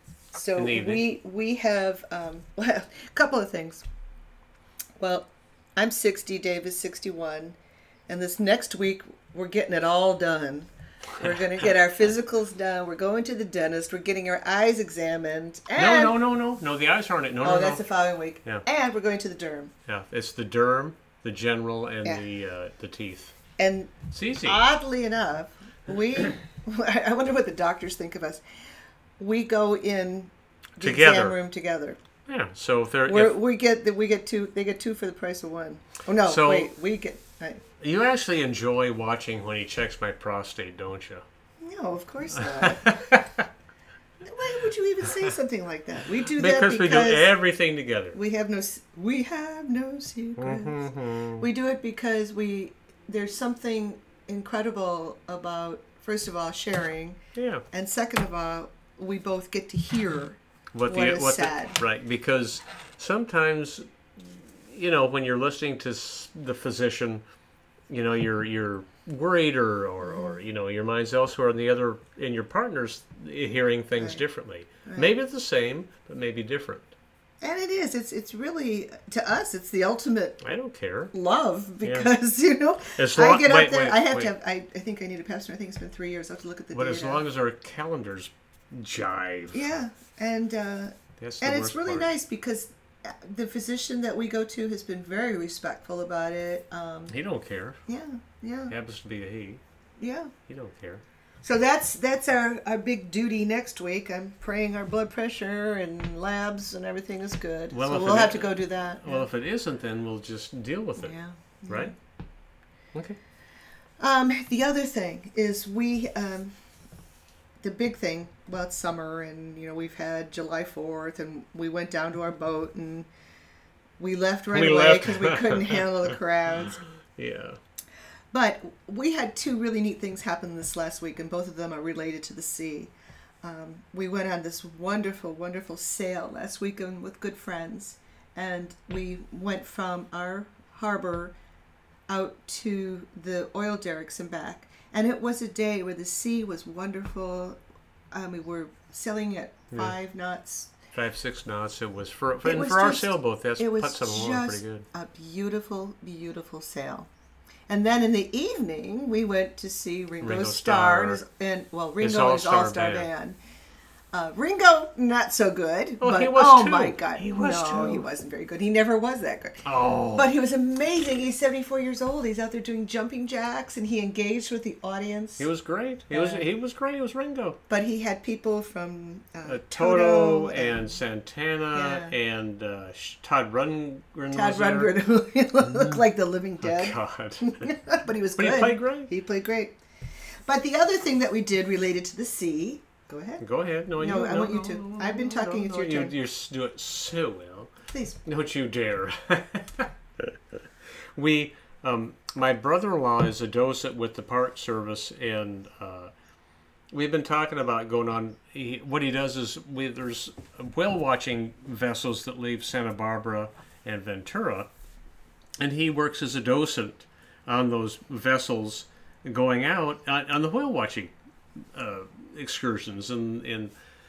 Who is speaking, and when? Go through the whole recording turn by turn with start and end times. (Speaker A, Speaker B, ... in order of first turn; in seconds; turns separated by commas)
Speaker A: 0.3-3.8, Speaker B: 0.6-1.0, Speaker A: 5.0-7.6, Speaker A: 8.1-16.2, Speaker B: 15.7-17.9, Speaker A: 17.4-19.7, Speaker B: 19.9-23.4, Speaker A: 23.6-28.4, Speaker B: 24.1-24.6, Speaker A: 29.2-32.0, Speaker B: 30.8-31.4, Speaker B: 32.2-33.4, Speaker A: 33.1-37.6, Speaker B: 36.2-36.7, Speaker B: 37.8-41.2, Speaker A: 41.6-43.1, Speaker B: 42.6-43.4, Speaker A: 44.2-47.3, Speaker B: 46.2-48.2, Speaker A: 48.1-50.8, Speaker B: 50.4-51.4, Speaker A: 51.4-57.2, Speaker B: 57.3-57.6, Speaker A: 57.7-61.8, Speaker B: 60.7-67.2, Speaker B: 67.9-76.9, Speaker A: 70.0-70.4, Speaker A: 74.8-75.1, Speaker A: 77.4-80.4, Speaker B: 80.4-81.1, Speaker A: 81.1-87.2, Speaker B: 81.8-82.1, Speaker B: 83.0-84.3, Speaker B: 86.7-89.7, Speaker A: 89.5-97.1, Speaker B: 91.2-92.1, Speaker B: 97.1-97.8, Speaker A: 97.9-98.7, Speaker B: 98.7-99.6, Speaker A: 100.0-100.3, Speaker B: 100.5-101.0, Speaker A: 101.4-109.3, Speaker B: 107.7-111.1, Speaker A: 111.0-111.9, Speaker A: 114.0-116.5, Speaker A: 117.6-123.1, Speaker A: 124.0-126.8, Speaker B: 124.5-125.8, Speaker B: 126.7-127.6, Speaker A: 128.3-132.9, Speaker A: 133.4-141.3, Speaker A: 142.1-147.6, Speaker A: 148.1-150.7, Speaker B: 150.9-154.8, Speaker A: 152.4-157.1, Speaker A: 157.7-163.4, Speaker B: 160.2-161.2, Speaker B: 162.0-163.1, Speaker A: 164.1-169.6, Speaker B: 166.0-168.1, Speaker B: 169.6-170.3, Speaker A: 170.1-175.5, Speaker B: 175.4-177.6, Speaker A: 176.1-176.5, Speaker A: 177.7-180.8, Speaker B: 179.4-184.9, Speaker A: 181.7-182.1, Speaker A: 184.3-189.8, Speaker B: 185.7-186.0, Speaker B: 186.6-187.7, Speaker B: 188.4-189.1, Speaker A: 190.5-193.4, Speaker B: 193.4-197.7, Speaker A: 194.0-196.1, Speaker A: 197.9-198.2, Speaker B: 198.2-200.2, Speaker B: 201.1-206.1, Speaker B: 206.9-214.7, Speaker B: 215.6-221.1, Speaker B: 221.7-223.7